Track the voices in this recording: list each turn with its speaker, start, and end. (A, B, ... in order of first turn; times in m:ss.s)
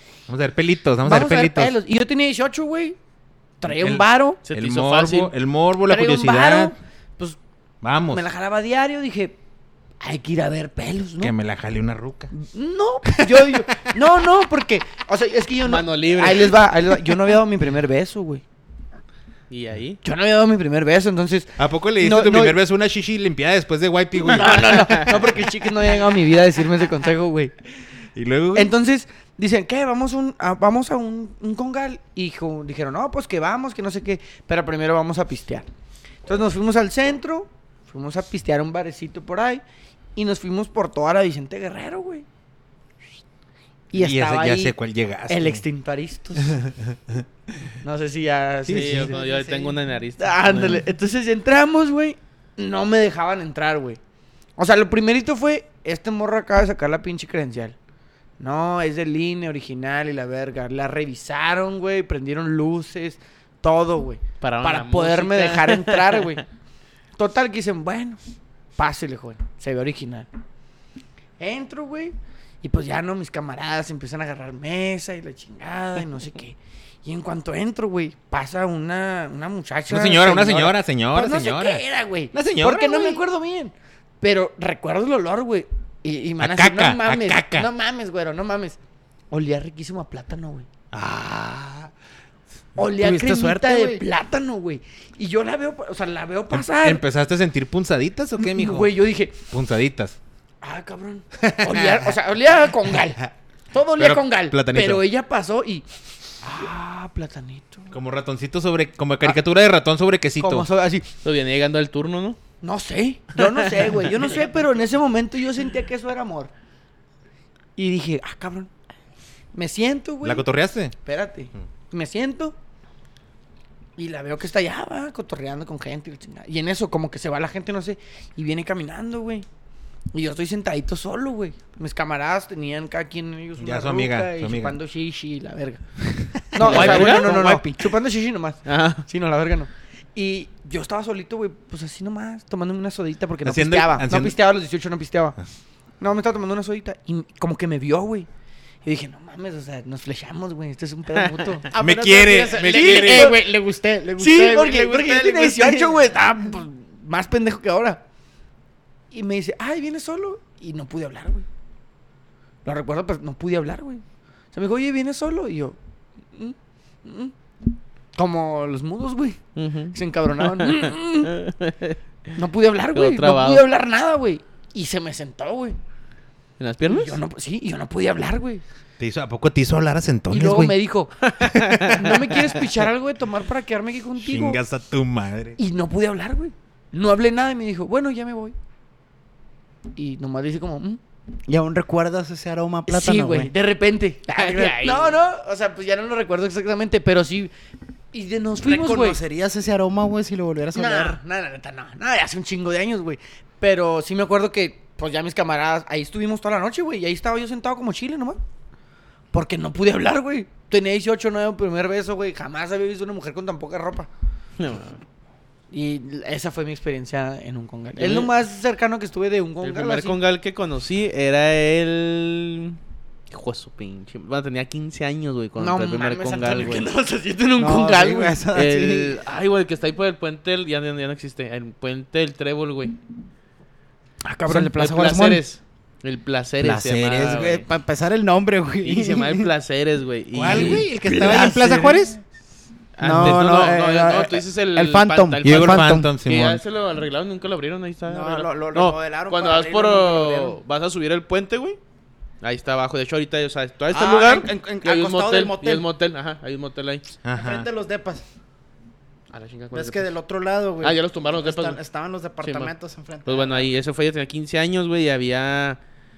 0:00.3-0:01.7 A
0:01.0-0:03.0 B
0:03.6-0:04.4 B
0:03.7-0:06.7 A
0:04.4-0:05.3 C
0:05.8-0:07.4 B
0:07.8-0:08.2 A
0:08.1-0:09.4 B
0:10.0-0:11.3 B
0:11.2-0:12.3 A
0:12.3-0:18.4 B
0:13.1-0:13.9 A
0:15.6-0:16.6 C
0:19.5-0:20.0 C
0:20.0-0:22.6 B
0:21.6-0:25.4 A
0:24.2-0:27.5 B
0:28.1-0:28.7 A
0:28.5-0:35.7 B
0:36.2-0:39.6 B
0:40.2-0:42.2 B
0:43.9-0:44.7 B
0:43.9-0:45.6 A
0:45.3-0:46.6 B
0:46.4-0:47.2 A
0:47.8-0:49.3 B
0:48.6-0:49.1 A
0:48.7-0:50.7 C
0:49.1-0:49.7 D
0:50.2-0:54.0 B
0:50.5-0:50.8 A
0:54.6-0:57.8 B
0:58.4-1:06.4 B
1:04.4-1:06.4 C
1:07.2-1:10.3 B
1:11.4-1:28.8 B
1:19.9-1:23.2 A
1:26.4-1:27.7 A
1:29.3-1:30.7 B
1:30.9-1:31.9 A
1:32.8-1:37.0 B
1:32.8-1:34.0 A
1:36.5-1:38.9 A
1:38.4-1:39.4 B
1:39.5-1:40.2 A
1:40.6-1:45.8 B
1:41.4-1:42.1 A
1:44.0-1:45.0 A
1:46.4-1:47.9 B
1:47.9-1:50.7 A
1:50.4-1:51.1 B
1:51.2-1:52.4 C
1:52.6-1:56.5 B
1:53.4-1:54.2 C
1:57.8-1:58.7 B
1:59.5-2:00.4 B
2:00.2-2:00.9 A
2:01.0-2:02.5 B
2:04.0-2:09.4 B
2:10.1-2:15.8 B
2:13.6-2:14.8 A
2:16.0-2:17.1 A
2:16.5-2:25.4 B
2:16.6-2:17.8 D
2:16.6-2:17.3 C
2:18.6-2:19.0 C
2:23.4-2:24.4 A
2:26.0-2:28.3 B
2:28.8-2:31.7 B
2:31.7-2:36.1 D
2:31.7-2:33.4 A
2:32.6-2:33.5 B
2:34.2-2:38.0 B
2:39.1-2:41.4 B
2:42.6-2:45.8 B
2:46.3-2:47.3 B
2:48.2-2:49.4 B
2:49.6-2:52.0 C
2:49.9-2:51.3 B
2:52.3-2:55.8 B
2:52.9-2:53.6 C
2:56.6-2:57.2 C
2:56.8-2:58.6 B
2:59.0-3:00.8 A
3:00.3-3:01.1 B
3:01.2-3:02.5 C
3:01.9-3:04.6 B
3:04.2-3:05.6 A
3:05.6-3:08.6 B
3:10.0-3:11.0 B
3:11.5-3:13.5 D
3:12.9-3:17.5 B
3:14.4-3:15.2 C
3:18.1-3:19.2 B
3:18.6-3:21.2 D
3:20.7-3:28.4 B
3:29.3-3:34.1 B
3:34.6-3:35.0 C
3:35.7-3:40.2 B
3:38.0-3:38.3 C
3:39.6-3:42.8 C
3:43.3-3:46.9 C
3:45.6-3:48.4 B
3:47.6-3:49.2 D
3:48.5-3:53.0 C
3:54.2-3:55.1 B
3:54.5-3:55.4 D
3:54.5-3:57.6 C
3:56.6-3:57.5 A
3:57.2-3:59.5 D
3:58.8-4:00.9 C
4:00.3-4:02.2 A
4:00.5-4:01.9 B
4:03.0-4:11.8 C
4:03.0-4:06.1 D
4:03.0-4:03.7 A
4:05.4-4:06.6 A
4:08.0-4:10.6 D
4:12.4-4:17.1 C
4:13.9-4:15.9 D
4:17.2-4:17.7 A
4:17.3-4:18.2 D
4:19.3-4:20.1 C
4:19.7-4:23.7 D
4:20.8-4:21.8 C
4:22.4-4:22.7 C
4:23.2-4:25.8 C